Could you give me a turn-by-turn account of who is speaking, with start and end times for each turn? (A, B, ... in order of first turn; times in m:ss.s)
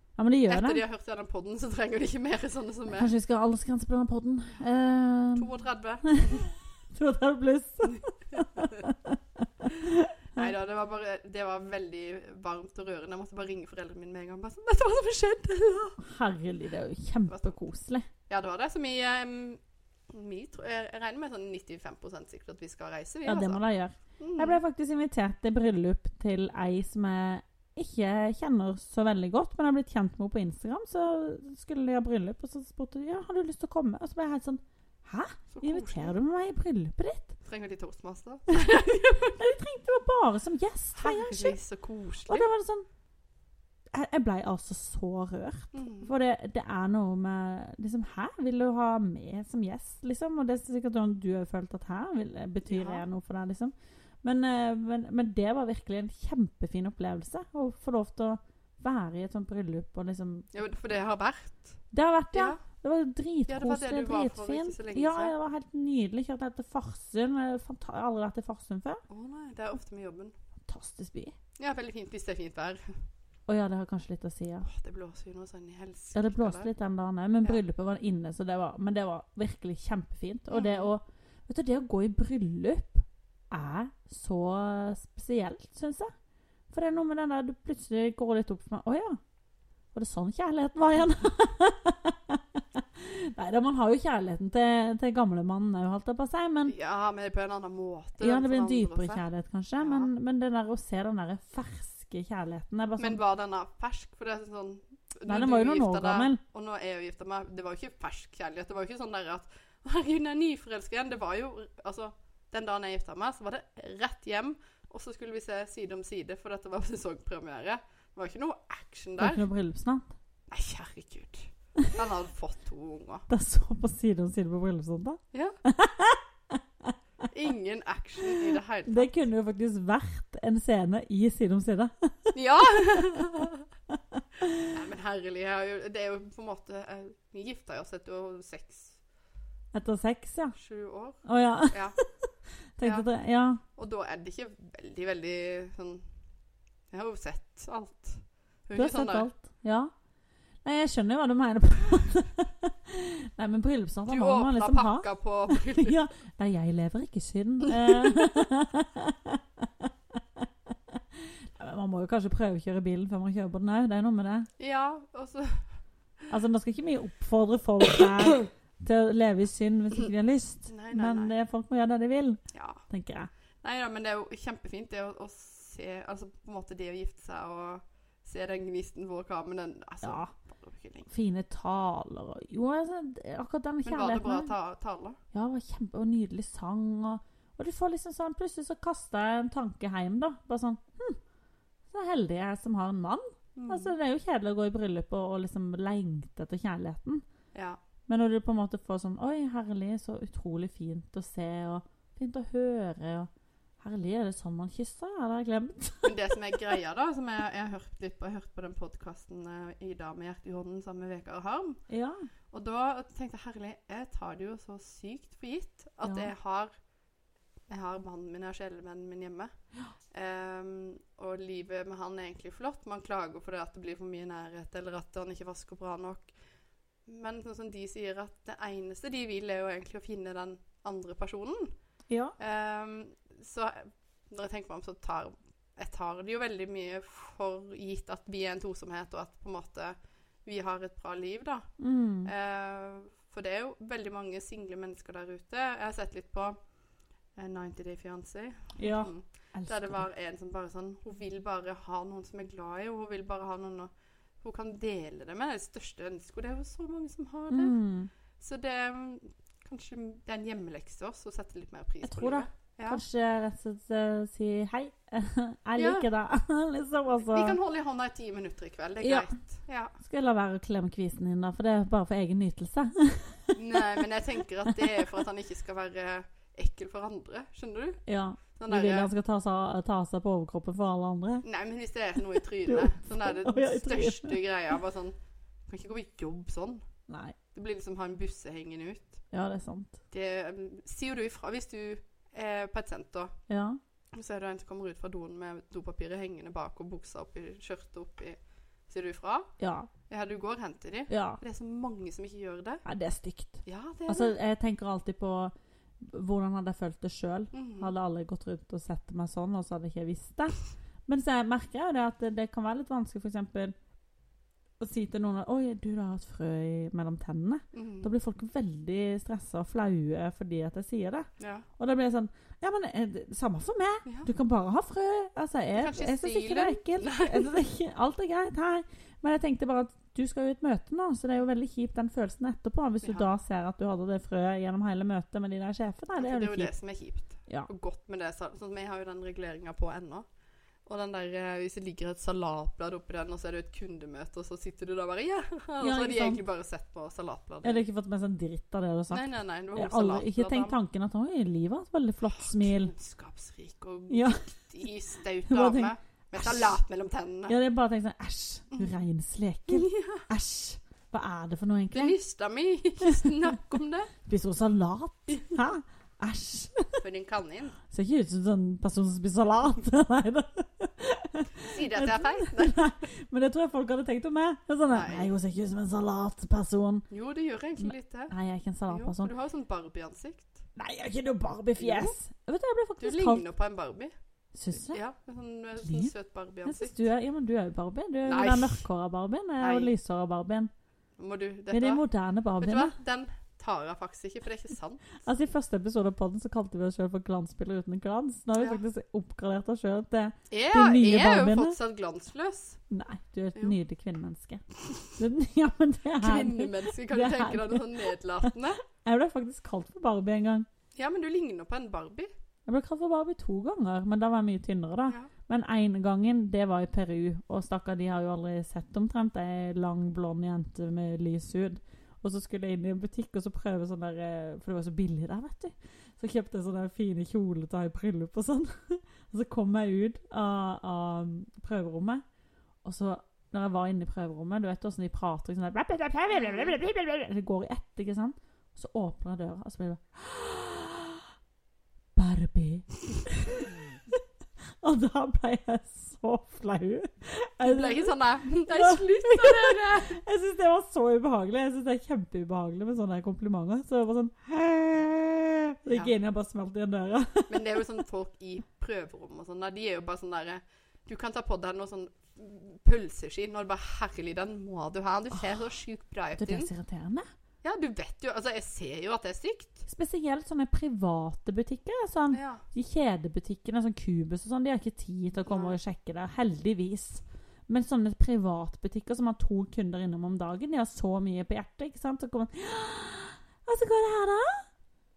0:00.2-0:00.8 A
0:00.5-0:03.1 B
0:02.9-0:05.5 A
0:05.4-0:06.5 B
0:06.1-0:10.5 A
0:08.4-0:08.8 B
0:10.3-0:16.0 B
0:16.0-0:18.1 A
0:17.3-0:17.5 B
0:18.3-0:23.6 B
0:23.2-0:37.3 A
0:24.2-0:24.6 B
0:35.5-0:36.2 B
0:37.4-0:39.5 B
0:39.4-0:41.6 A
0:41.0-0:42.5 B
0:42.3-0:42.8 A
0:43.9-1:00.5 A
0:45.7-0:46.1 B
0:52.7-0:53.0 B
1:00.5-1:01.8 B
1:01.9-1:09.0 A
1:02.3-1:02.6 B
1:03.5-1:05.3 B
1:09.1-1:10.3 B
1:10.6-1:11.3 A
1:11.6-1:13.0 B
1:13.5-1:14.7 A
1:14.6-1:16.7 B
1:16.1-1:26.1 A
1:20.5-1:20.9 B
1:26.7-1:29.2 A
1:29.9-1:36.7 A
1:36.7-1:39.2 B
1:38.2-1:43.2 A
1:39.8-1:40.1 B
1:43.0-1:59.4 B
1:45.2-1:46.4 A
1:59.2-2:00.1 A
2:00.5-2:03.2 B
2:03.3-2:06.9 A
2:07.3-2:09.2 B
2:08.4-2:14.7 A
2:12.3-2:13.6 B
2:14.7-2:19.0 B
2:19.7-2:20.5 A
2:20.5-2:22.0 B
2:21.2-2:22.1 A
2:22.8-2:23.6 A
2:22.8-2:23.1 B
2:23.8-2:26.0 B
2:26.9-2:29.3 B
2:28.7-2:29.9 A
2:30.6-2:44.5 A
2:34.1-2:36.0 B
2:44.6-2:45.6 B
2:46.3-2:53.3 A
2:50.7-2:51.3 B
2:52.5-2:52.8 B
2:53.6-3:01.1 B
3:00.0-3:00.3 A
3:01.1-3:04.5 A
3:03.8-3:05.2 B
3:05.3-3:11.2 A
3:11.9-3:17.2 A
3:13.6-3:13.9 B
3:17.5-3:17.8 B
3:18.1-3:23.3 A
3:23.8-3:26.2 A
3:26.0-3:31.8 B
3:31.9-3:32.2 A
3:32.5-3:36.7 B
3:36.0-3:36.3 A
3:37.7-3:39.5 B
3:40.1-3:46.3 B
3:47.1-3:51.7 B
3:52.1-3:52.3 A
3:52.4-4:01.7 B
4:01.8-4:02.3 A
4:02.2-4:06.6 B
4:07.4-4:13.9 B
4:08.8-4:10.1 A
4:14.4-4:17.8 B
4:17.5-4:18.1 A
4:18.4-4:23.0 B
4:22.0-4:27.6 A
4:25.8-4:26.0 B
4:27.2-4:29.9 B
4:29.0-4:29.3 A
4:30.0-4:34.0 A
4:33.5-4:38.0 B
4:38.0-4:41.4 A
4:38.5-4:39.1 B
4:41.4-4:45.2 B
4:42.6-4:44.4 A
4:45.7-4:46.8 B
4:47.1-4:47.3 A
4:47.5-4:49.2 B
4:49.3-4:50.0 A
4:50.1-4:53.3 B
4:53.5-4:53.8 A
4:54.1-4:58.4 B
4:58.9-4:59.5 B
4:59.6-4:59.9 A
5:00.1-5:02.8 B
5:01.1-5:01.4 A
5:02.8-5:13.7 A
5:03.6-5:04.3 B
5:07.5-5:07.9 B
5:14.8-5:36.7 A
5:17.7-5:18.1 B
5:21.4-5:21.6 B
5:25.8-5:27.6 B
5:33.0-5:33.3 B
5:36.2-5:40.2 B
5:40.8-5:47.8 B
5:45.8-5:46.4 A
5:47.6-5:52.9 A
5:49.1-5:50.8 B
5:52.3-5:57.6 B
5:54.1-5:54.4 A
5:55.5-5:56.8 A
5:57.5-6:02.2 A
5:59.7-6:00.3 B
6:01.9-6:04.1 B
6:03.0-6:03.6 A
6:04.2-6:07.0 A
6:07.0-6:07.8 B
6:07.9-6:17.1 A
6:11.7-6:12.8 B
6:14.9-6:15.3 B
6:17.1-6:18.3 B
6:17.8-6:19.3 A
6:18.9-6:20.6 B
6:20.8-6:23.4 A
6:21.8-6:22.2 B
6:23.0-6:24.1 B
6:24.5-6:25.0 A
6:24.7-6:27.0 B
6:25.8-6:26.1 A
6:26.6-6:30.7 A
6:28.2-6:28.8 B
6:29.6-6:29.9 B
6:31.2-6:32.0 B
6:31.7-6:32.9 A
6:32.6-6:35.2 B
6:35.2-6:41.8 A
6:40.5-6:42.8 B
6:42.9-6:50.7 A
6:46.2-6:48.8 B
6:50.9-6:52.3 B
6:52.6-7:12.2 A
7:12.8-7:21.3 A
7:16.3-7:16.7 B
7:22.1-7:23.8 A
7:24.8-7:38.0 A
7:27.6-7:30.2 B
7:37.5-7:46.7 B
7:46.4-7:47.2 A
7:47.6-7:49.9 B
7:49.9-8:04.7 A
7:52.3-7:52.6 B
7:55.4-7:55.8 B